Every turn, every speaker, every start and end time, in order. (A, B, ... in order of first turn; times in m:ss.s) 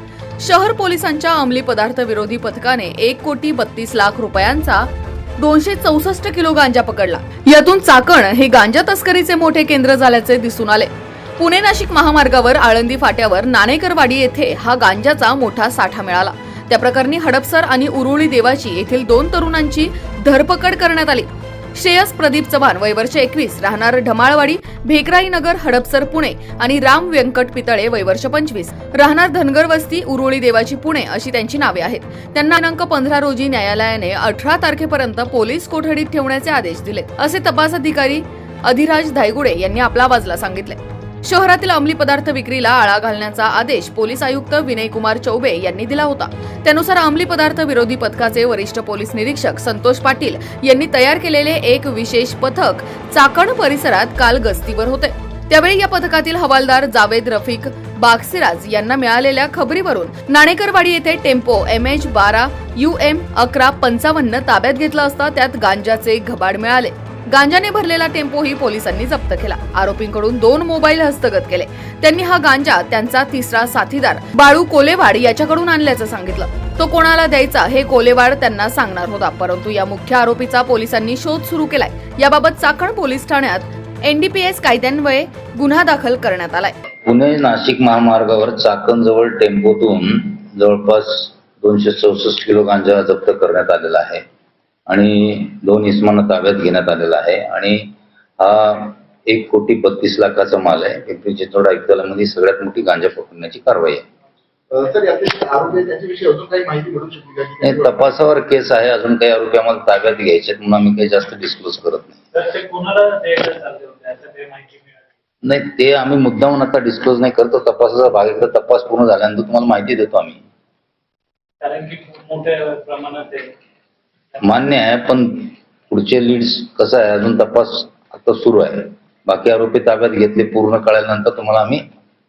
0:00.4-1:26.7 A
1:27.0-1:34.2 B
1:34.9-1:44.0 B
1:44.7-1:47.9 C
1:47.6-1:52.2 B
1:52.3-1:55.0 D
1:55.4-2:00.4 B
2:01.6-2:03.5 D
2:04.4-2:11.8 B